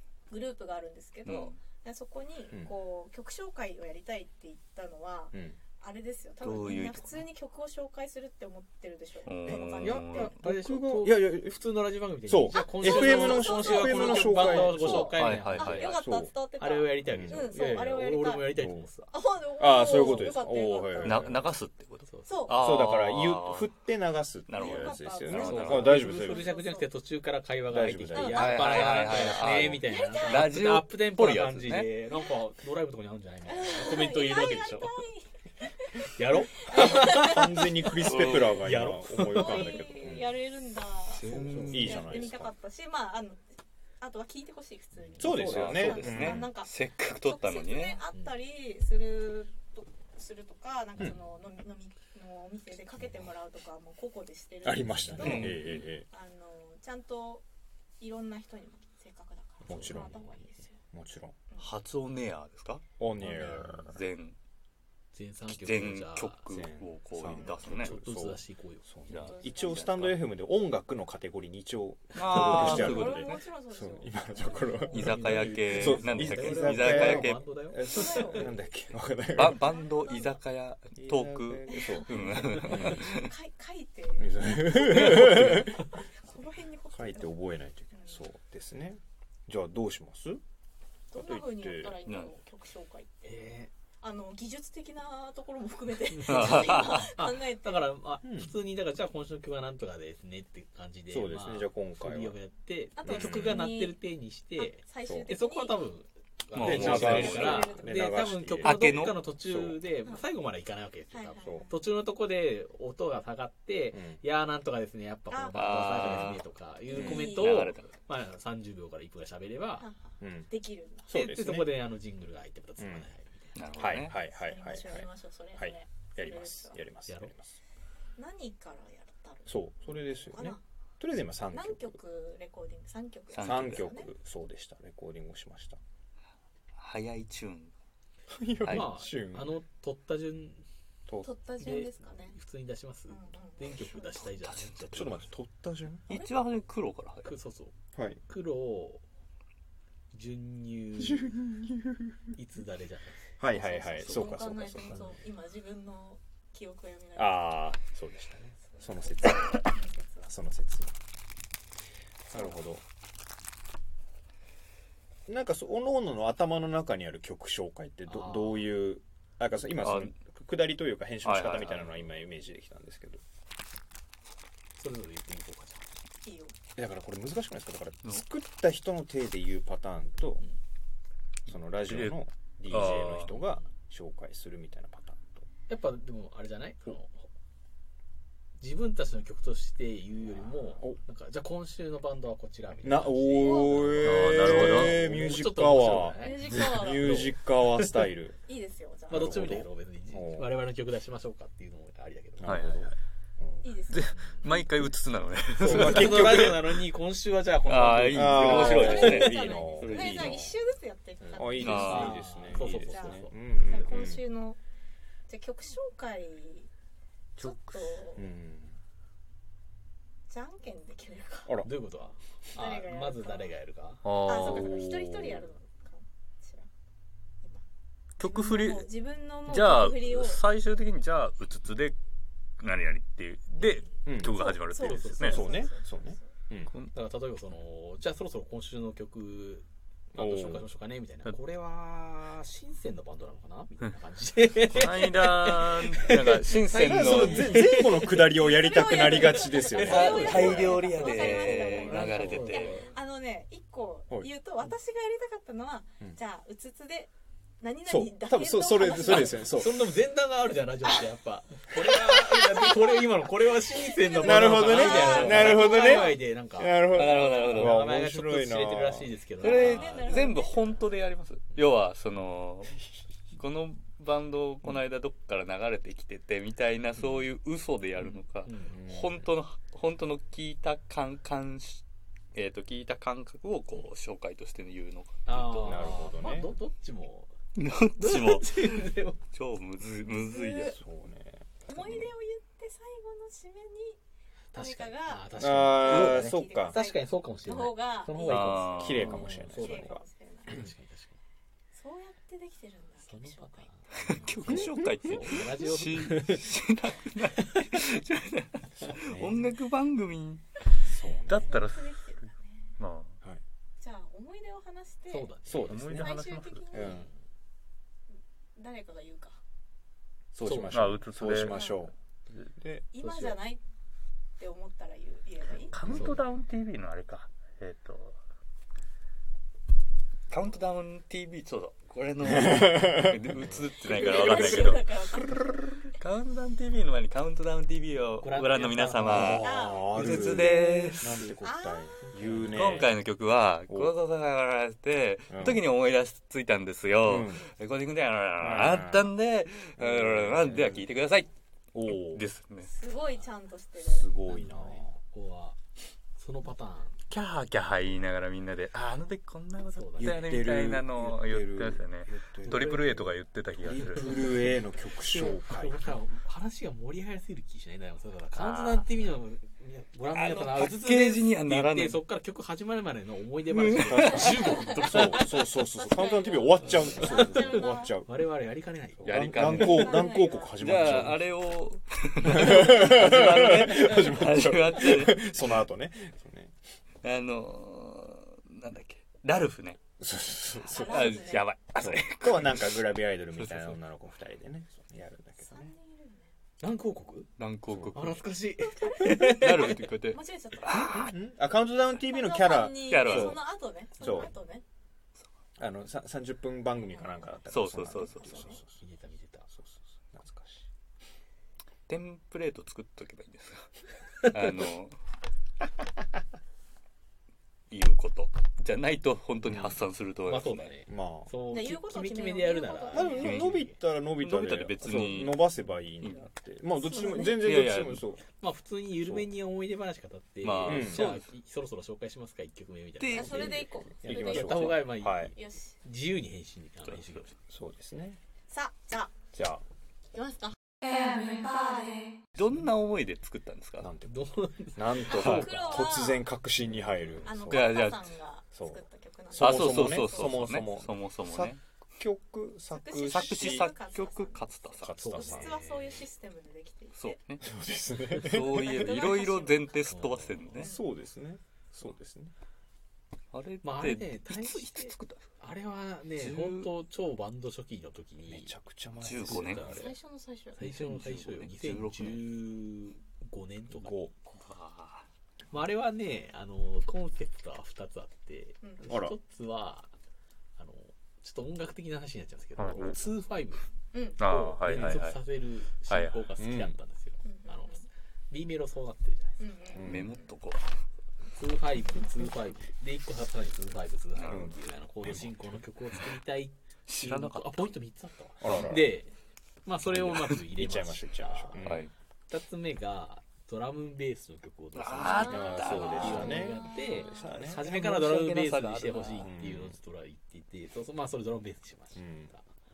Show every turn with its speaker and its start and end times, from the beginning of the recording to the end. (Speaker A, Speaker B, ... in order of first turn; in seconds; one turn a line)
Speaker A: 0.3-10.3
Speaker B: 1.3-1.6
Speaker C: 5.3-5.6
Speaker B: 6.4-7.2
Speaker B: 9.2-10.4
Speaker C: 9.5-11.6
Speaker D: 9.7-16.0
Speaker C: 12.2-15.2
Speaker A: 12.5-18.5
Speaker B: 15.2-15.9
Speaker C: 15.8-16.3
Speaker D: 16.6-19.1
Speaker C: 17.1-17.5
Speaker C: 18.5-18.9
Speaker A: 19.1-21.2
Speaker C: 19.6-21.5
Speaker D: 20.0-20.3
Speaker B: 21.0-23.7
Speaker D: 22.0-22.7
Speaker A: 22.2-22.7
Speaker C: 22.5-26.5
Speaker B: 24.5-26.0
Speaker A: 24.5-26.9
Speaker D: 25.3-35.0
Speaker C: 27.7-29.6
Speaker A: 28.1-30.6
Speaker B: 28.3-31.9
Speaker A: 32.1-32.4
Speaker A: 33.5-36.1
Speaker D: 36.1-40.0
Speaker A: 36.7-37.7
Speaker C: 36.7-40.4
Speaker B: 38.0-38.7
Speaker A: 39.3-43.5
Speaker B: 41.1-42.2
Speaker D: 41.2-42.3
Speaker C: 41.2-42.5
Speaker A: 44.0-57.5
Speaker D: 45.0-46.1
Speaker C: 45.2-46.5
Speaker B: 45.3-48.0
Speaker C: 54.6-56.1
Speaker D: 54.8-55.6
Speaker B: 55.2-55.8
Speaker A: 58.0-60.8
Speaker C: 59.6-60.4
Speaker D: 59.7-60.5
Speaker C: 60.9-61.4
Speaker B: 61.6-64.4
Speaker C: 63.0-64.0
Speaker D: 65.1-66.5
Speaker B: 65.5-68.0
Speaker C: 66.5-79.7
Speaker D: 67.7-68.9
Speaker B: 69.1-70.2
Speaker A: 69.1-69.9
Speaker B: 72.1-73.4
Speaker A: 72.3-75.2
Speaker D: 74.4-78.5
Speaker B: 74.9-77.5
Speaker A: 77.8-78.6
Speaker B: 79.3-83.3
Speaker A: 79.4-80.4
Speaker C: 81.0-83.1
Speaker A: 81.7-88.3
Speaker C: 84.2-86.0
Speaker C: 86.9-90.4
Speaker A: 91.1-93.5
Speaker C: 91.1-92.0
Speaker B: 92.1-92.3
Speaker D: 93.2-93.7
Speaker A: 94.0-97.9
Speaker D: 96.1-119.9
Speaker B: 96.3-97.1
Speaker C: 98.2-98.5
Speaker C: 101.1-102.4
Speaker A: 103.0-104.0
Speaker C: 103.0-103.6
Speaker A: 104.6-105.9
Speaker C: 105.0-105.3
Speaker B: 106.5-107.7
Speaker C: 106.6-109.8
Speaker A: 106.7-108.2
Speaker B: 108.6-109.2
Speaker A: 111.1-111.8
Speaker C: 111.4-111.7
Speaker C: 113.9-114.2
Speaker A: 115.3-115.6
Speaker B: 115.5-116.4
Speaker A: 116.9-117.7
Speaker B: 116.9-117.9
Speaker A: 119.8-121.1
Speaker C: 120.2-120.5
Speaker C: 121.1-121.8
Speaker D: 121.1-123.6
Speaker C: 122.8-123.1
Speaker B: 123.5-124.1
Speaker C: 123.8-127.6
Speaker A: 124.3-126.8
Speaker D: 127.1-127.3
Speaker A: 128.2-129.7
Speaker C: 129.5-132.0
Speaker A: 130.2-130.6
Speaker A: 131.5-134.1
Speaker B: 133.3-134.0
Speaker C: 133.4-135.8
Speaker B: 136.8-137.7
Speaker C: 138.3-139.6
Speaker B: 138.6-138.9
Speaker D: 138.7-140.7
Speaker A: 141.2-142.4
Speaker D: 141.6-145.3
Speaker A: 143.1-144.2
Speaker B: 144.4-145.1
Speaker C: 144.9-146.1
Speaker B: 146.1-147.3
Speaker D: 147.2-149.0
Speaker C: 147.9-148.2
Speaker D: 150.1-151.4
Speaker C: 151.0-151.9
Speaker D: 152.3-153.3
Speaker C: 153.4-155.1
Speaker A: 153.5-157.8
Speaker B: 154.0-154.4
Speaker D: 154.9-155.2
Speaker C: 157.2-159.6
Speaker A: 158.7-160.3
Speaker C: 160.3-160.9
Speaker C: 162.3-162.8
Speaker C: 165.3-173.2
Speaker D: 168.1-168.7
Speaker B: 169.8-170.2
Speaker B: 171.2-172.0
Speaker D: 174.8-175.8
Speaker A: 176.2-176.6
Speaker C: 176.8-180.4
Speaker C: 181.5-185.5
Speaker B: 181.8-183.4
Speaker D: 185.7-187.3
Speaker D: 188.6-197.3
Speaker C: 190.3-191.0
Speaker C: 192.8-198.4
Speaker A: 193.4-193.9
Speaker B: 194.0-195.1
Speaker A: 196.2-197.2
Speaker A: 198.5-199.4
Speaker C: 199.1-200.6
Speaker D: 199.1-202.6
Speaker C: 202.4-203.7
Speaker B: 202.4-202.9
Speaker A: 203.6-204.1
Speaker B: 203.9-206.7
Speaker D: 204.1-204.7
Speaker D: 205.6-209.3
Speaker C: 205.6-206.6
Speaker B: 207.7-210.5
Speaker C: 208.1-210.5
Speaker A: 208.4-214.6
Speaker C: 211.2-214.2
Speaker B: 211.6-212.2
Speaker D: 211.6-213.3
Speaker A: 215.3-216.7
Speaker B: 217.4-218.0
Speaker A: 217.4-218.3
Speaker C: 218.2-218.8
Speaker A: 220.3-221.5
Speaker D: 221.6-224.1
Speaker A: 222.5-223.5
Speaker B: 224.0-225.4
Speaker A: 224.2-226.7
Speaker B: 228.2-228.9
Speaker A: 228.2-230.4
Speaker B: 229.5-232.0
Speaker B: 232.6-235.4
Speaker C: 234.1-234.4
Speaker A: 234.4-236.3
Speaker D: 234.8-235.7
Speaker C: 235.2-236.7
Speaker D: 236.9-252.9
Speaker C: 240.2-240.7
Speaker B: 244.6-247.7
Speaker C: 246.8-251.1
Speaker A: 248.4-259.6
Speaker B: 249.7-252.8
Speaker C: 257.9-259.9
Speaker D: 258.8-270.4
Speaker A: 263.9-266.2
Speaker C: 264.1-269.2
Speaker B: 264.5-265.7
Speaker B: 266.9-267.8
Speaker A: 267.2-267.6
Speaker A: 269.4-270.9
Speaker B: 269.4-272.8
Speaker B: 273.3-281.8
Speaker D: 278.4-278.8
Speaker C: 278.7-279.2
Speaker B: 282.3-286.0
Speaker D: 285.3-287.3
Speaker C: 285.6-286.6
Speaker B: 287.6-288.6
Speaker D: 288.0-289.2
Speaker B: 289.3-290.8
Speaker A: 290.0-290.8
Speaker C: 290.6-292.1
Speaker A: 291.7-294.0
Speaker D: 294.5-301.2
Speaker A: 294.5-300.7
Speaker C: 295.4-296.8
Speaker B: 298.2-299.1
Speaker C: 298.7-300.0
Speaker A: 301.7-303.7
Speaker D: 303.1-306.6
Speaker B: 304.0-310.6
Speaker C: 304.5-304.9
Speaker C: 308.8-309.5
Speaker C: 310.8-311.6
Speaker A: 311.0-312.8
Speaker B: 311.3-313.2
Speaker A: 313.8-315.4
Speaker D: 315.1-316.1
Speaker C: 315.4-316.1
Speaker B: 315.7-316.7
Speaker A: 315.9-317.1
Speaker C: 316.7-317.1
Speaker D: 316.8-317.1
Speaker A: 318.6-319.4
Speaker C: 320.3-321.9
Speaker D: 320.4-321.0
Speaker B: 320.7-321.6
Speaker A: 321.4-321.9
Speaker C: 322.6-322.9
Speaker A: 322.9-323.6
Speaker D: 323.0-323.4
Speaker A: 324.4-325.8
Speaker B: 325.7-328.2
Speaker C: 325.8-326.2
Speaker D: 325.9-326.2
Speaker B: 330.3-341.3
Speaker C: 332.2-333.5
Speaker A: 333.8-335.9
Speaker D: 338.2-341.4
Speaker C: 339.1-343.0
Speaker A: 339.4-340.1
Speaker A: 341.4-341.9
Speaker D: 342.0-343.0
Speaker B: 342.5-351.3
Speaker C: 343.7-343.9
Speaker C: 345.3-345.6
Speaker C: 347.0-347.5
Speaker C: 348.4-349.1
Speaker C: 349.8-350.9
Speaker C: 351.7-352.2
Speaker B: 351.9-352.7
Speaker A: 352.6-354.1
Speaker C: 353.8-355.0
Speaker D: 354.3-355.6
Speaker D: 356.2-357.0
Speaker B: 357.1-364.3
Speaker D: 359.7-360.3
Speaker C: 360.0-365.9
Speaker D: 362.4-363.0
Speaker D: 363.8-375.5
Speaker B: 368.3-368.9
Speaker B: 370.1-372.0
Speaker B: 373.5-374.7
Speaker C: 373.8-378.1
Speaker A: 374.4-375.1
Speaker A: 375.8-377.9
Speaker D: 376.6-379.2
Speaker C: 379.0-381.2
Speaker B: 379.0-385.6
Speaker A: 379.4-380.6
Speaker C: 382.2-386.5
Speaker B: 387.0-389.8
Speaker C: 390.0-395.7
Speaker A: 390.5-391.5
Speaker B: 390.9-393.8
Speaker A: 395.4-396.3
Speaker D: 396.6-397.3
Speaker B: 397.4-398.3
Speaker C: 397.7-398.0
Speaker D: 397.9-399.9
Speaker A: 398.8-401.1
Speaker B: 399.1-401.0
Speaker C: 400.7-403.4
Speaker A: 402.0-404.6
Speaker B: 402.9-403.5
Speaker C: 404.0-404.3
Speaker C: 405.6-408.7
Speaker B: 407.5-408.6
Speaker A: 407.9-408.6
Speaker D: 408.4-409.5
Speaker C: 409.5-410.7
Speaker B: 411.9-413.7
Speaker B: 414.2-415.0
Speaker B: 417.7-420.7
Speaker C: 419.4-419.8
Speaker D: 420.3-423.8
Speaker C: 420.9-421.4
Speaker A: 421.5-423.6
Speaker C: 422.9-428.2
Speaker B: 423.2-423.6
Speaker B: 424.2-426.3
Speaker A: 426.8-427.5
Speaker B: 427.2-428.1
Speaker D: 428.4-437.3
Speaker C: 429.0-429.3
Speaker B: 430.4-431.3
Speaker C: 430.7-431.1
Speaker B: 433.0-433.6
Speaker A: 433.0-435.8
Speaker C: 433.2-435.4
Speaker B: 436.9-437.2
Speaker C: 437.5-438.2
Speaker A: 438.5-439.2
Speaker C: 439.3-439.6
Speaker A: 440.1-442.1
Speaker B: 442.4-443.9
Speaker C: 443.8-447.7
Speaker D: 444.1-445.8
Speaker A: 445.0-446.3
Speaker A: 447.2-450.5
Speaker B: 447.5-448.1
Speaker C: 448.5-453.7
Speaker B: 449.4-451.6
Speaker A: 452.7-457.2
Speaker B: 453.0-454.9
Speaker C: 454.8-455.6
Speaker D: 455.0-456.1
Speaker B: 456.9-457.4
Speaker C: 457.4-459.1
Speaker B: 458.2-460.7
Speaker A: 458.6-459.7
Speaker D: 459.9-460.6
Speaker C: 460.5-462.3
Speaker A: 460.6-460.9
Speaker B: 463.3-465.2
Speaker D: 463.6-468.5
Speaker B: 466.2-466.7
Speaker C: 468.2-469.8
Speaker B: 469.0-469.8
Speaker D: 469.1-470.0
Speaker A: 469.6-470.6
Speaker D: 470.5-474.0
Speaker B: 470.6-472.3
Speaker C: 473.7-474.1
Speaker B: 474.3-475.1
Speaker D: 475.5-479.9
Speaker A: 478.6-479.0
Speaker C: 478.9-479.2
Speaker D: 480.6-483.7
Speaker B: 482.6-483.0
Speaker A: 483.9-484.2
Speaker B: 484.2-485.2
Speaker D: 484.2-489.4
Speaker B: 485.9-486.3
Speaker C: 486.4-486.8
Speaker A: 487.2-487.9
Speaker A: 489.4-490.0
Speaker C: 489.8-490.1
Speaker B: 489.8-490.7
Speaker D: 491.3-499.1
Speaker B: 494.2-494.5
Speaker C: 494.2-495.6
Speaker B: 496.9-497.7
Speaker C: 498.4-499.0
Speaker D: 499.6-501.6
Speaker C: 499.9-501.9
Speaker B: 500.0-500.3
Speaker B: 501.6-501.9
Speaker D: 502.3-512.5
Speaker B: 504.8-509.3
Speaker A: 505.1-505.4
Speaker C: 505.1-507.7
Speaker A: 506.1-507.1
Speaker C: 509.2-509.8
Speaker C: 511.9-512.3